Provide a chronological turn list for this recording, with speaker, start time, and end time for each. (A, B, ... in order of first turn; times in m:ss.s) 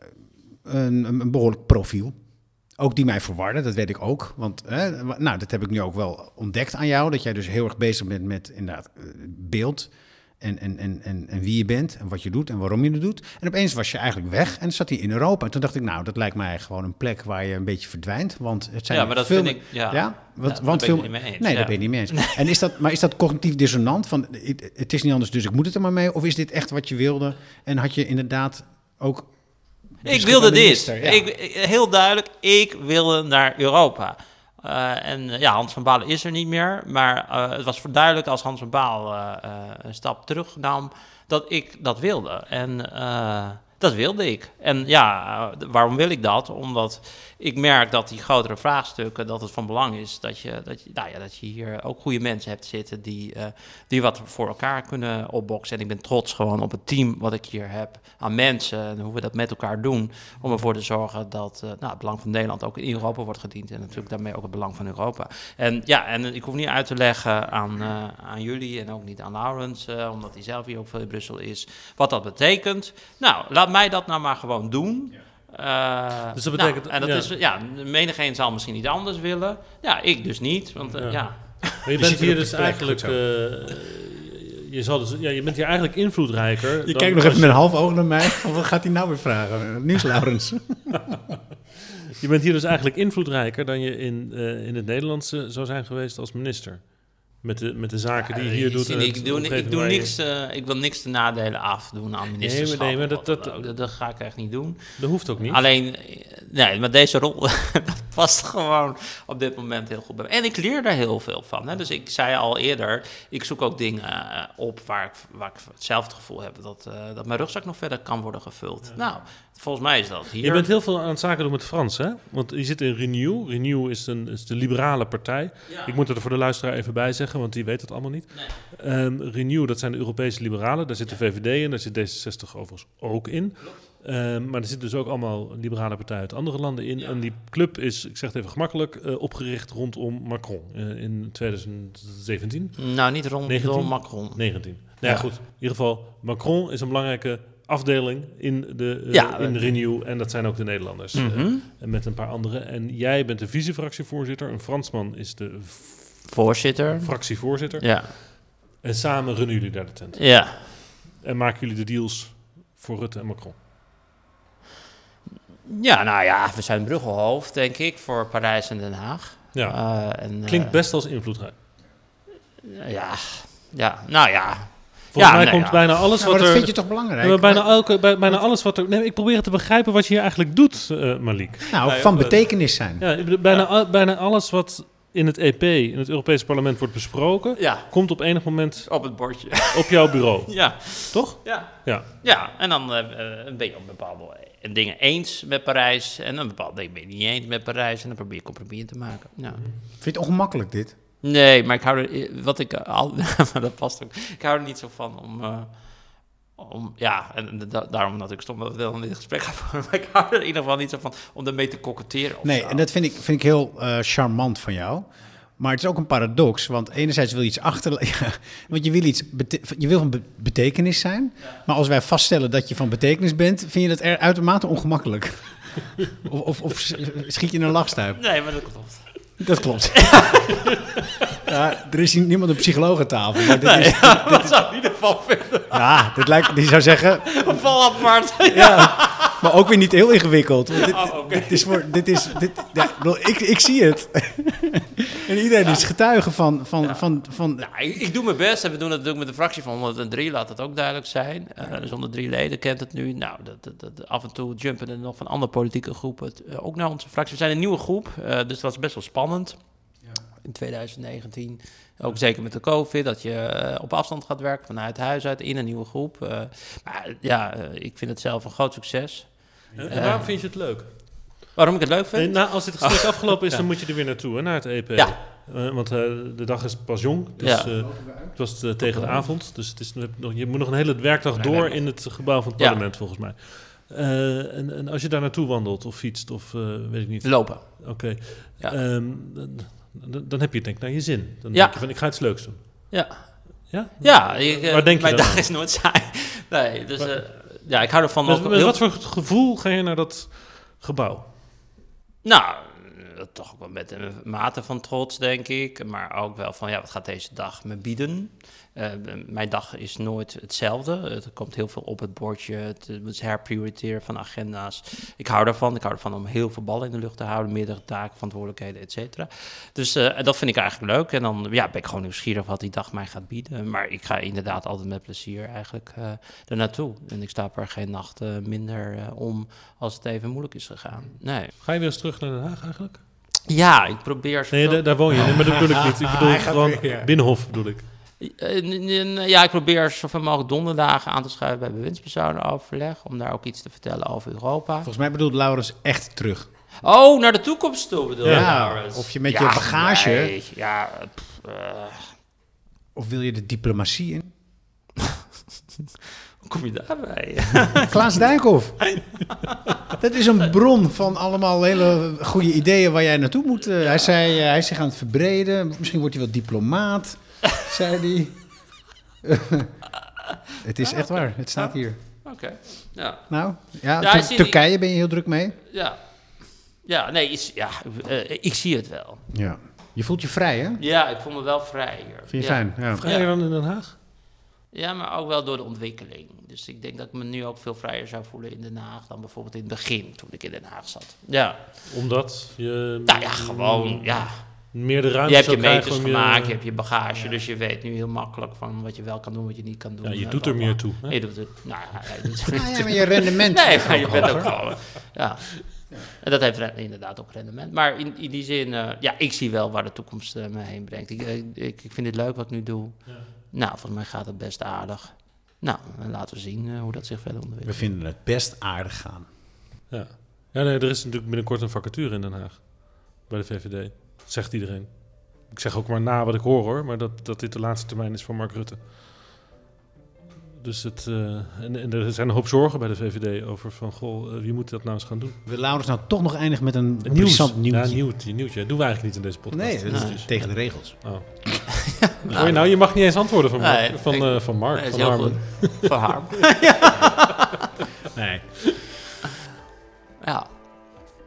0:00.6-0:31.2 A
0:18.9-0:22.4 B
0:30.0-1:21.8 B
1:16.3-1:17.3 C
1:20.9-1:27.9 C
1:21.9-1:23.2 A
1:26.8-1:31.1 A
1:32.1-1:40.2 C
1:38.1-2:00.7 B
1:42.4-1:43.7 C
1:45.0-1:45.6 C
2:00.4-2:36.4 C
2:05.7-2:05.9 B
2:22.8-2:25.3 B
2:29.1-2:29.7 B
2:31.1-2:31.6 B
2:36.3-2:38.1 B
2:37.0-2:43.6 C
2:40.1-2:40.7 B
2:45.6-2:50.7 B
2:49.5-2:51.5 C
2:52.6-2:55.9 B
2:55.1-3:02.4 C
2:56.2-2:58.4 A
3:01.7-3:03.0 A
3:01.8-3:02.4 B
3:03.0-3:12.1 C
3:07.6-3:19.6 B
3:20.0-3:20.9 A
3:21.2-3:32.9 B
3:32.4-3:48.3 A
3:48.2-3:50.8 B
3:49.4-3:50.5 A
3:51.4-3:54.6 A
3:53.6-3:56.4 B
3:55.7-3:57.4 A
3:57.2-3:59.4 B
3:58.5-4:07.7 A
4:00.8-4:02.7 B
4:07.6-4:30.6 B
4:29.7-4:30.2 A
4:29.8-4:31.4 C
4:31.5-4:33.6 B
4:32.2-4:53.0 C
4:37.4-4:38.1 B
4:37.5-4:38.4 A
4:38.8-4:39.2 B
4:41.3-4:42.8 B
4:47.2-4:48.8 B
4:51.5-4:52.4 B
4:52.9-4:58.8 B
4:53.7-4:55.5 C
4:57.0-4:57.3 C
4:58.2-5:01.3 C
5:02.2-5:31.5 B
5:31.5-5:33.0 C
5:33.5-5:35.4 B
5:34.5-5:37.9 C
5:35.2-5:37.1 A
5:38.2-5:44.9 B
5:44.8-5:46.5 A
5:46.8-5:52.1 B
5:48.2-5:48.5 C
5:48.2-5:50.3 A
5:52.9-5:54.3 A
5:56.4-5:58.2 B
5:57.9-5:59.0 A
5:58.9-5:59.7 B
5:59.9-6:09.8 A
6:10.6-6:12.2 A
6:10.9-6:14.6 B
6:13.3-6:15.6 A
6:15.7-6:19.2 B
6:19.3-6:20.8 A
6:20.8-6:23.3 B
6:22.3-6:23.0 A
6:23.0-6:24.0 C
6:24.7-6:31.7 B
6:31.8-6:36.6 C
6:33.0-6:57.8 B
6:40.0-6:41.8 C
6:42.5-6:44.6 A
6:44.2-6:44.7 C
6:57.6-6:59.3 A
6:59.9-7:08.9 C
7:10.6-7:15.4 C
7:15.4-7:18.0 A
7:17.0-7:26.7 C
7:19.5-7:21.2 A
7:19.9-7:27.4 B
7:28.1-7:28.8 A
7:30.2-7:30.5 B